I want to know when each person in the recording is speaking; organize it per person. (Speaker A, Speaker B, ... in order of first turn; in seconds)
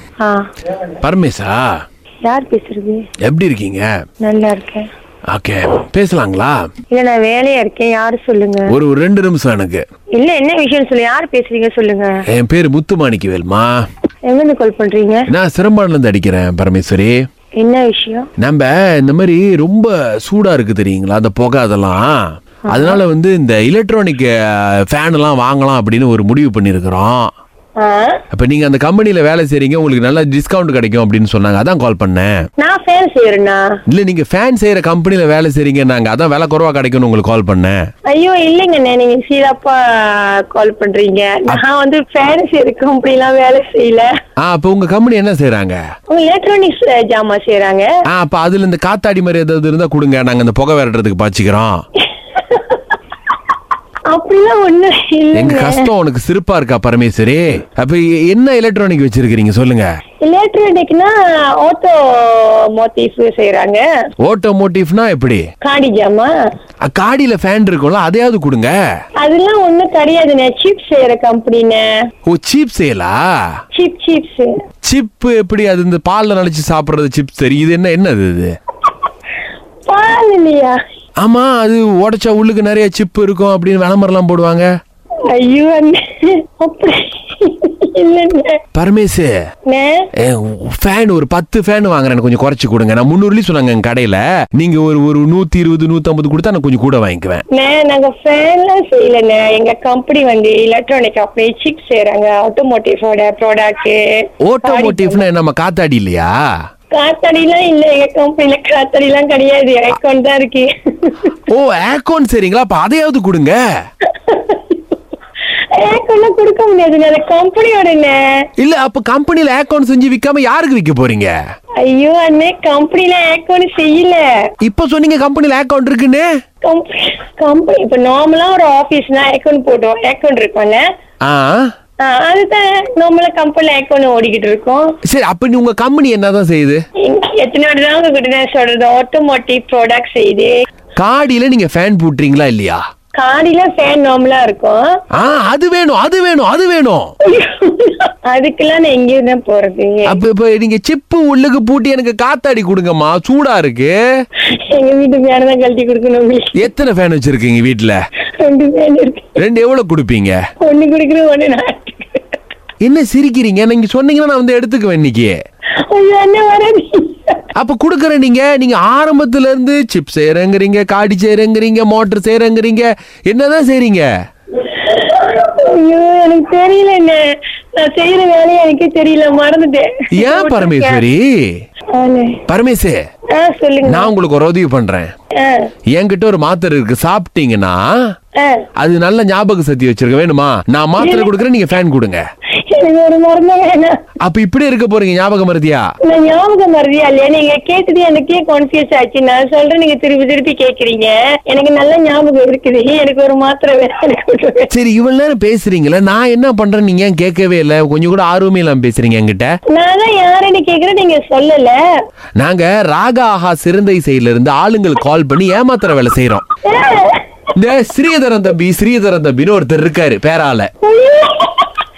Speaker A: 1.0-1.7, 3.2-3.9, 5.3-6.6, 8.7-9.8, 12.3-13.8, 15.3-17.2, 18.4-27.3, 28.3-32.3, 33.9-37.8, 44.4-45.8, 48.1-51.8, 55.3-59.9, 64.2-65.5, 66.8-68.7, 72.2-73.2, 74.8-78.5, 81.2-84.7, 88.7-89.3, 90.2-97.4, 104.4-106.3, 111.5-113.6, 118.6-121.3, 124.6-126.3, 131.2-131.7, 135.1-136.8, 140.9-142.8, 145.1-147.1, 150.1-154.0, 156.6-158.0, 159.4-160.4, 162.8-165.3, 167.6-174.1, 180.2-181.5, 182.5-183.0, 183.8-185.1, 185.9-187.8, 188.8-192.2, 194.2-195.9, 204.7-209.5, 212.4-216.4, 217.5-220.7
Speaker B: 2.2-3.1, 4.2-4.9, 6.9-8.7, 10.2-12.2, 14.3-15.2, 17.6-18.3, 22.7-23.0, 27.8-28.2, 32.6-33.6, 38.1-44.1, 46.1-47.9, 52.3-52.8, 54.1-55.9, 60.2-63.8, 65.6-66.3, 69.2-71.8, 73.7-74.5, 79.8-80.8, 85.3-88.6, 89.7-90.1, 97.5-104.0, 104.6-105.3, 106.9-111.3, 114.1-115.0, 115.7-118.2, 121.8-124.2, 126.6-130.8, 132.0-134.9, 137.0-140.5, 143.2-144.8, 147.2-150.2, 154.5-156.6, 158.4-159.4, 160.6-162.3, 165.8-167.4, 174.6-177.2, 177.7-181.0, 181.9-182.4, 183.3-184.1, 185.4-185.7, 188.4-188.7, 191.0-191.4, 192.6-194.0, 196.0-204.7, 209.7-211.8, 216.7-217.2, 220.8-221.7